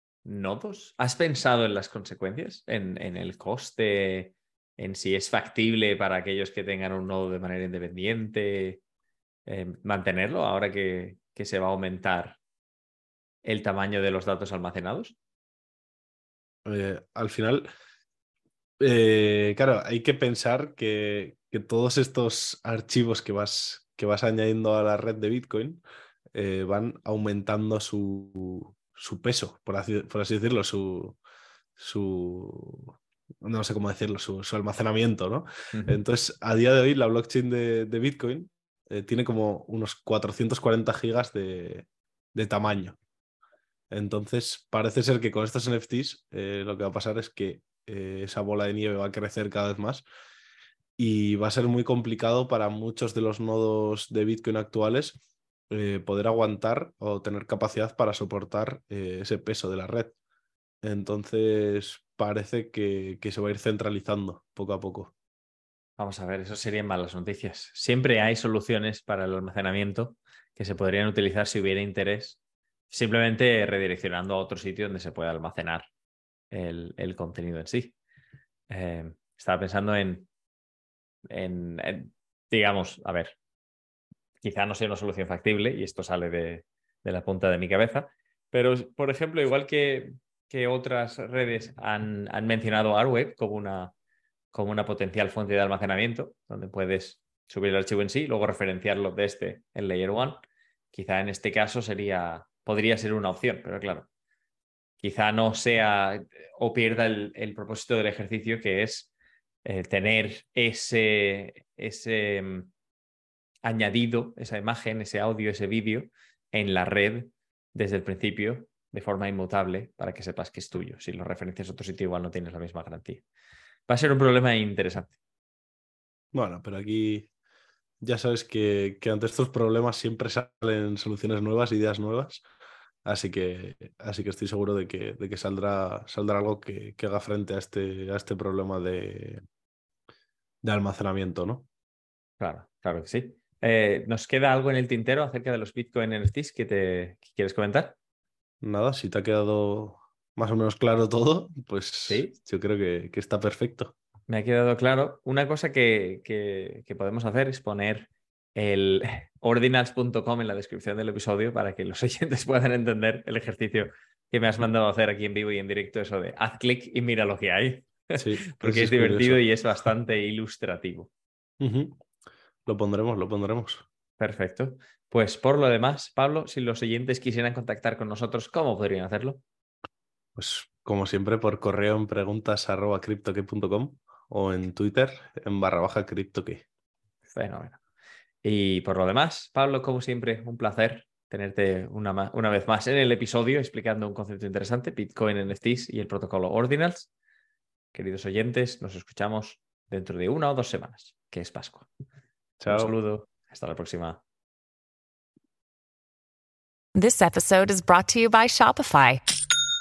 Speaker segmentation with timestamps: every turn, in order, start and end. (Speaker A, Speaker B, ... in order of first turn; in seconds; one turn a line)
Speaker A: 0.2-8.8
Speaker A: 9.4-12.4
Speaker A: 13.4-15.2
Speaker B: 16.6-17.7
Speaker B: 18.8-25.8
Speaker B: 26.3-31.2
Speaker B: 31.8-43.0
Speaker A: 35.7-36.0
Speaker B: 43.9-50.0
Speaker B: 51.0-60.1
Speaker B: 60.8-65.1
Speaker A: 66.0-72.4
Speaker A: 72.9-75.8
Speaker A: 76.5-77.9
Speaker A: 78.7-80.3
Speaker A: 81.3-83.3
Speaker A: 84.4-93.9
Speaker A: 94.5-100.4
Speaker A: 100.9-104.1
Speaker A: 105.0-109.1
Speaker A: 109.6-112.7
Speaker A: 113.6-123.2
Speaker A: 123.9-125.2
Speaker B: 126.3-127.3
Speaker B: 128.0-132.4
Speaker B: 133.0-139.4
Speaker B: 140.6-141.7
Speaker A: 142.4-147.9
Speaker B: 148.6-153.9
Speaker A: 152.1-152.3
Speaker A: 154.3-171.1
Speaker B: 168.2-169.4
Speaker B: 171.6-172.0
Speaker B: 172.7-173.8
Speaker A: 174.2-179.4
Speaker B: 180.3-186.6
Speaker A: 187.3-187.8
Speaker A: 188.4-197.1
Speaker A: 197.9-201.9
Speaker B: 202.6-202.9
Speaker A: 202.7-204.2
Speaker C: 206.9-209.2